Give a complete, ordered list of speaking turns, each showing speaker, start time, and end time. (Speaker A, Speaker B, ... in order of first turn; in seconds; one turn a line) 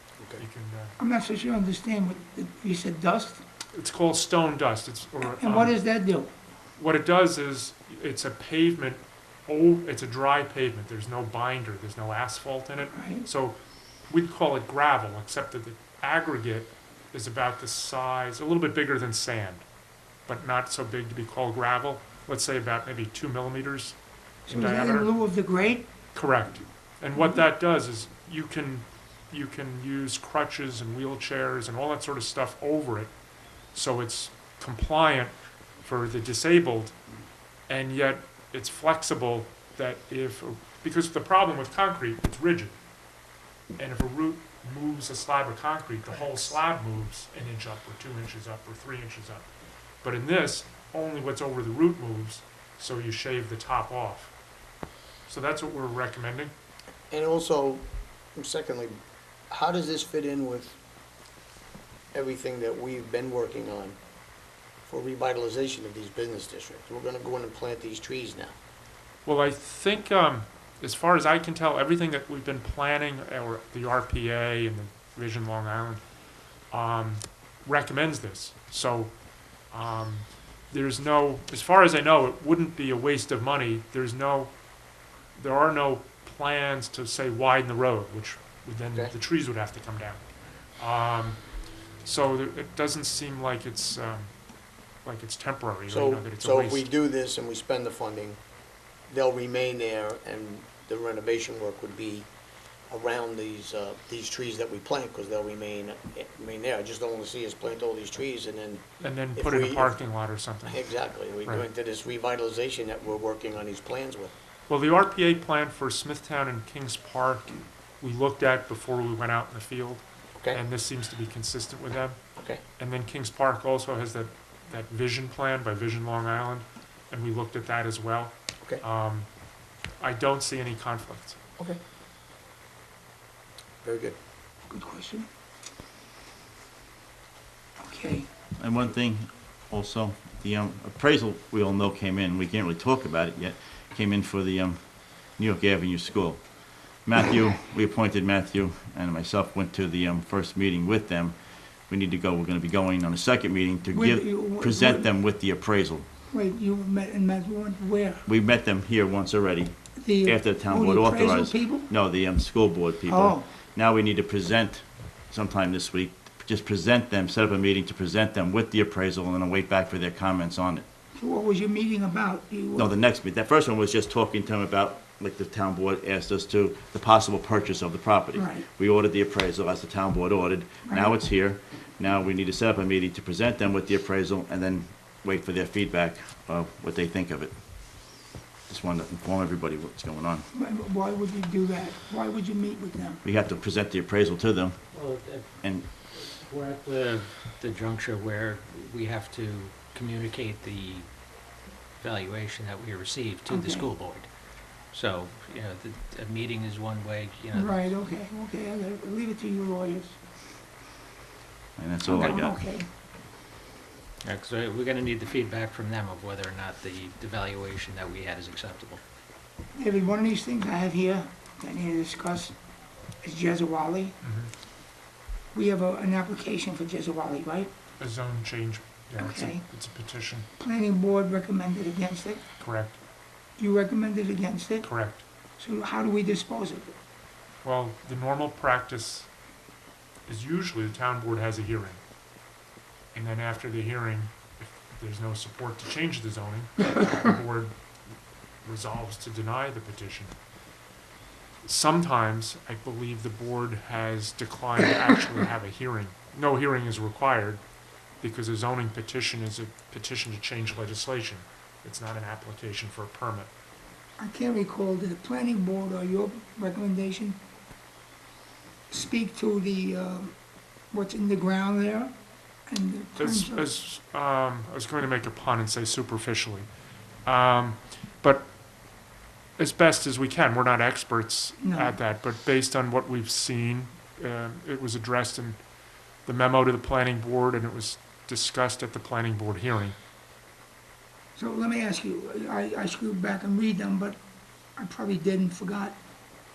Speaker A: 0.4-1.0
Speaker B: 1.0-3.4
Speaker A: 3.7-5.8
Speaker B: 5.2-6.3
Speaker A: 6.8-13.6
Speaker B: 12.9-13.2
Speaker A: 14.1-19.6
Speaker A: 20.3-24.0
Speaker B: 24.5-25.9
Speaker A: 24.5-25.1
Speaker A: 26.1-33.1
Speaker B: 27.1-27.4
Speaker A: 33.7-37.0
Speaker A: 37.7-42.8
Speaker A: 43.8-49.5
Speaker A: 50.0-54.3
Speaker A: 55.3-56.5
Speaker C: 57.1-57.9
Speaker C: 58.4-59.0
Speaker C: 59.5-60.8
Speaker C: 62.1-64.0
Speaker C: 64.9-68.5
Speaker A: 69.3-76.0
Speaker A: 76.7-79.1
Speaker A: 79.7-84.5
Speaker A: 85.3-90.2
Speaker A: 90.8-91.4
Speaker A: 92.0-94.3
Speaker A: 95.0-96.9
Speaker C: 96.0-98.4
Speaker C: 99.1-102.3
Speaker C: 102.9-108.8
Speaker A: 109.0-111.7
Speaker C: 111.4-114.3
Speaker A: 114.7-117.5
Speaker A: 118.0-122.2
Speaker C: 122.4-122.6
Speaker A: 122.8-129.3
Speaker A: 130.0-131.4
Speaker C: 133.8-134.2
Speaker B: 134.7-135.3
Speaker B: 137.8-138.3
Speaker D: 138.6-144.8
Speaker D: 145.4-146.4
Speaker D: 147.0-151.4
Speaker D: 151.9-156.1
Speaker B: 153.9-155.1
Speaker B: 156.3-158.3
Speaker D: 158.3-170.8
Speaker B: 160.0-161.9
Speaker B: 163.1-163.4
Speaker B: 171.2-172.9
Speaker D: 172.8-190.5
Speaker B: 178.3-178.7
Speaker B: 180.9-181.1
Speaker B: 190.5-193.2
Speaker D: 193.2-194.8
Speaker E: 194.9-201.1
Speaker D: 195.6-195.9
Speaker E: 202.0-204.3
Speaker B: 203.5-203.9
Speaker E: 204.9-207.9
Speaker B: 207.5-210.2
Speaker D: 211.8-212.6
Speaker B: 212.0-212.9
Speaker E: 214.2-219.0
Speaker B: 219.8-222.5
Speaker B: 223.2-224.2
Speaker A: 224.2-224.5
Speaker B: 225.5-227.7
Speaker A: 228.0-230.5
Speaker B: 229.2-229.6
Speaker B: 230.6-232.4
Speaker A: 232.6-233.0
Speaker B: 233.6-234.9
Speaker A: 234.8-235.2
Speaker B: 235.6-236.9
Speaker A: 237.6-239.3
Speaker A: 240.3-242.0
Speaker A: 243.1-247.7
Speaker A: 248.6-250.4
Speaker A: 251.6-257.6
Speaker A: 258.2-263.5
Speaker B: 264.2-267.4
Speaker B: 268.9-270.3
Speaker B: 270.9-272.1
Speaker B: 272.7-273.7
Speaker A: 273.2-276.7
Speaker A: 277.2-278.5
Speaker A: 279.6-285.6
Speaker B: 281.6-282.0
Speaker A: 286.2-290.0
Speaker B: 291.4-294.2
Speaker B: 294.8-296.0